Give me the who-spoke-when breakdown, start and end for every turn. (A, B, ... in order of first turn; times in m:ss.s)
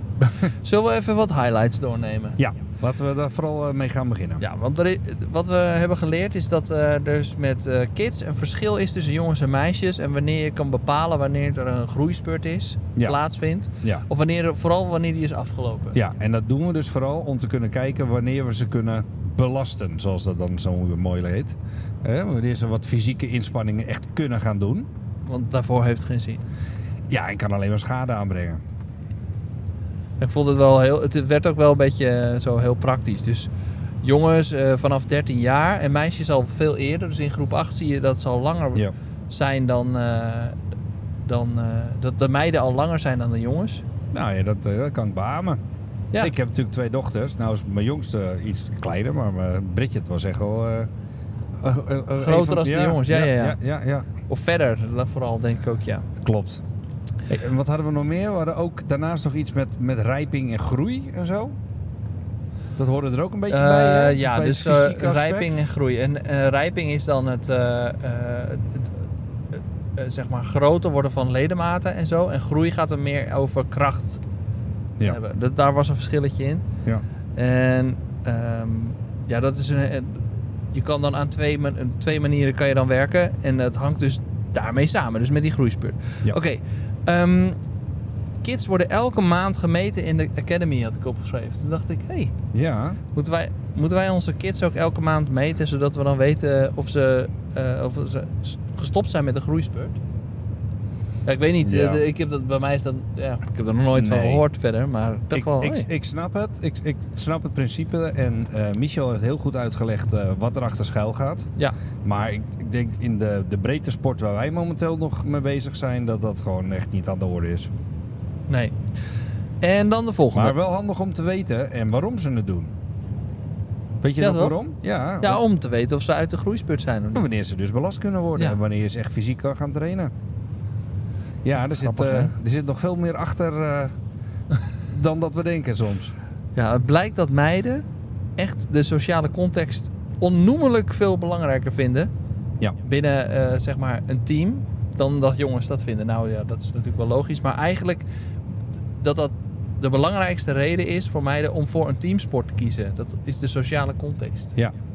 0:00.2-0:02.4 A
0:02.4-0:04.4 B
0:04.4-0:16.0 A
0:16.0-0:24.9 B
0:25.3-0:26.4 A
0:27.1-0:28.6 B
0:30.2-0:33.5 A
0:34.0-0:40.6 A
0:41.2-0:43.8 A
0:44.1-0:45.6 B
0:46.2-0:50.9 B
0:51.6-0:54.1 B
0:52.2-0:53.6 A
0:54.3-0:56.1 A
0:56.2-0:56.6 B
0:57.3-1:01.6 B
1:02.8-1:05.6 B
1:03.5-1:09.0 A
1:10.0-1:14.2 A
1:15.0-1:16.6 A
1:17.4-1:27.6 A
1:28.4-1:32.3 A
1:32.5-1:33.0 B
1:33.2-1:40.0 A
1:41.2-1:45.9 A
1:41.6-1:42.0 B
1:43.9-1:44.4 B
1:45.3-1:51.5 B
1:52.0-1:57.7 B
1:58.5-1:58.8 A
1:59.6-2:00.6 A
2:00.3-2:02.7 B
2:04.0-2:05.4 B
2:04.2-2:04.6 A
2:05.2-2:07.3 A
2:07.2-2:10.1 B
2:11.4-2:14.0 B
2:11.7-2:12.3 A
2:14.9-2:16.1 B
2:16.6-2:17.8 A
2:18.4-2:22.1 A
2:22.8-2:28.0 A
2:29.0-2:34.5 A